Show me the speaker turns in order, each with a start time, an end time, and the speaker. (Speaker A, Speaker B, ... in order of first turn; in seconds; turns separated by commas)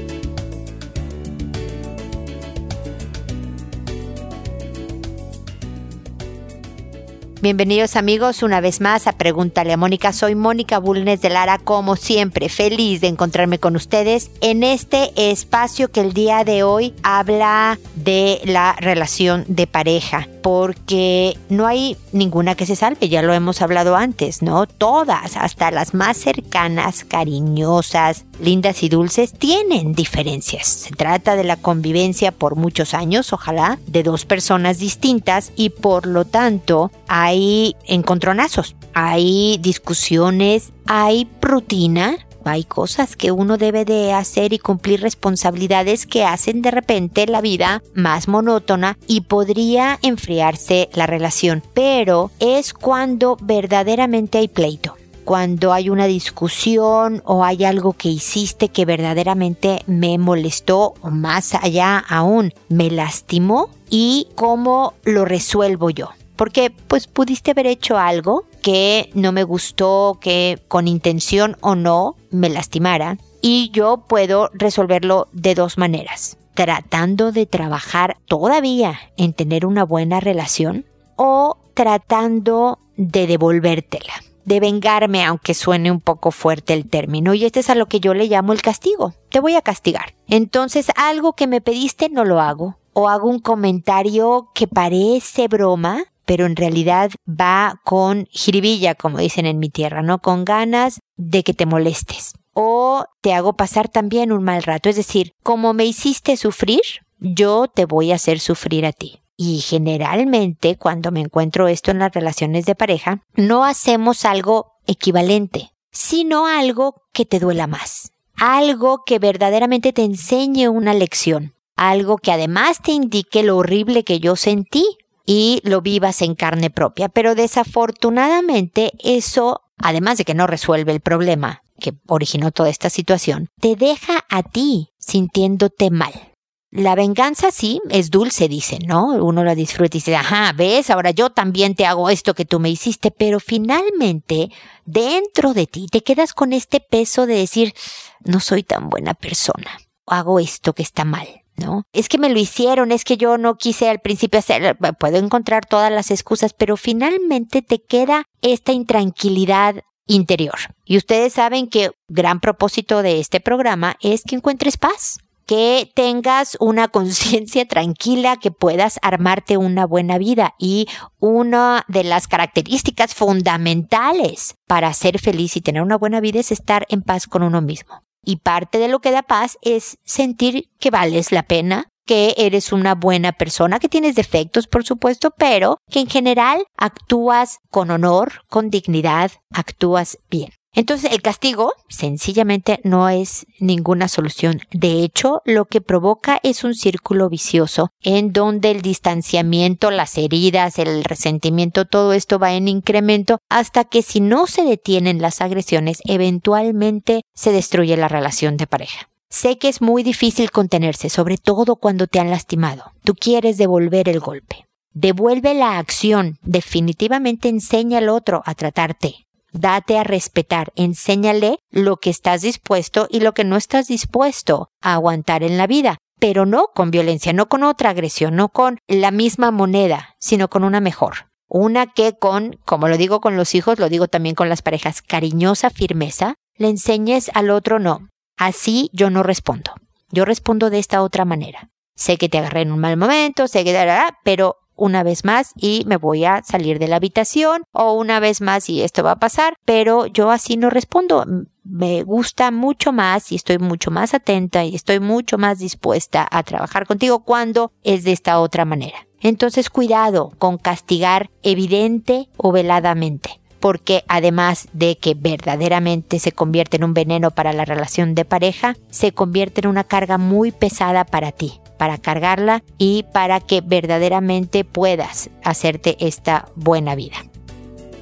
Speaker A: 7.4-277.2